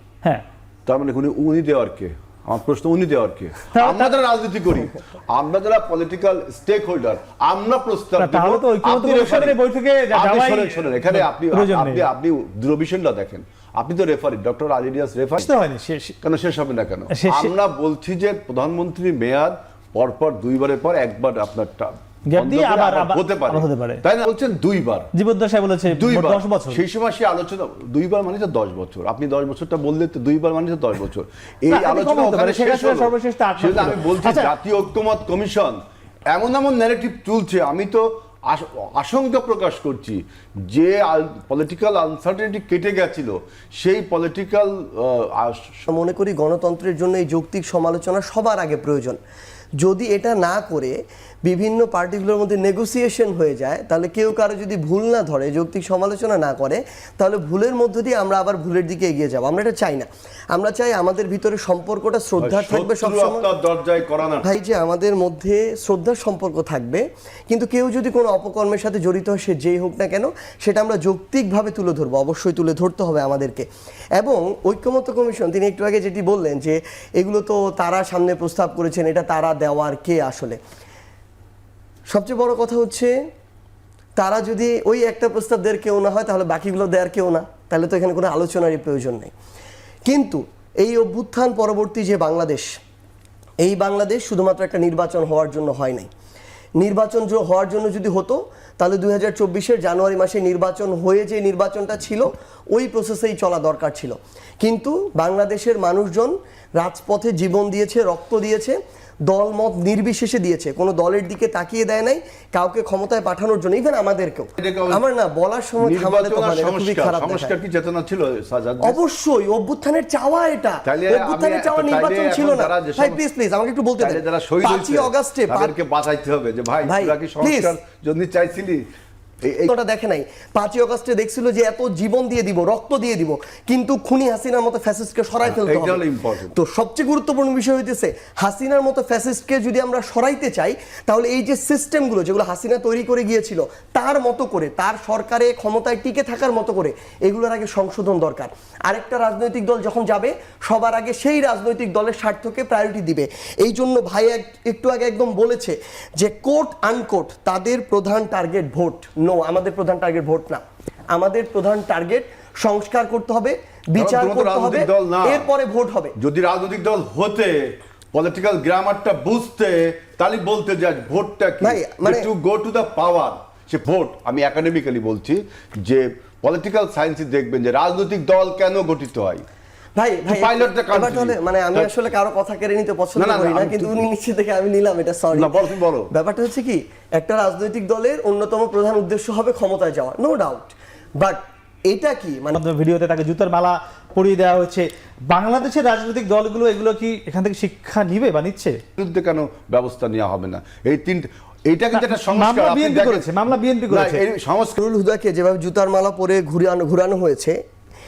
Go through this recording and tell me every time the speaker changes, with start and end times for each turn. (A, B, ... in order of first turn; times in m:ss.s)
0:00.9-0:09.6 A
0:03.7-0:04.2 B
0:08.2-0:12.1 B
0:10.1-0:15.5 A
0:15.4-0:16.2 B
0:16.2-0:25.1 A
0:17.1-0:17.5 B
0:22.3-0:24.0 B
0:25.1-0:26.8 B
0:25.9-0:35.8 A
0:31.7-0:34.5 B
0:36.3-0:45.9 A
0:45.9-0:49.2 C
0:49.8-0:50.9 C
0:51.5-1:03.5 C
1:02.4-1:04.5 A
1:04.4-1:13.6 C
1:14.2-1:20.6 C
1:22.1-1:23.1 C
1:24.2-1:29.3 C
1:30.1-1:32.7 C
1:33.6-1:36.1 C
1:36.8-1:57.5 C
1:54.6-1:55.0 A
1:55.8-1:59.0 A
1:58.8-2:05.7 C
2:00.8-2:03.2 A
2:04.0-2:08.8 A
2:06.8-2:07.8 C
2:09.4-2:09.7 A
2:09.7-2:40.6 C
2:15.4-2:16.6 A
2:41.1-2:46.2 C
2:44.0-2:45.5 A
2:46.2-2:59.4 A
2:51.6-2:52.3 C
3:00.0-3:05.6 C
3:00.3-3:01.9 A
3:03.2-3:04.0 A
3:05.3-3:06.1 A
3:06.1-3:12.6 C
3:12.6-3:18.8 B
3:19.0-3:24.8 A
3:21.9-3:24.2 B
3:24.8-3:27.6 C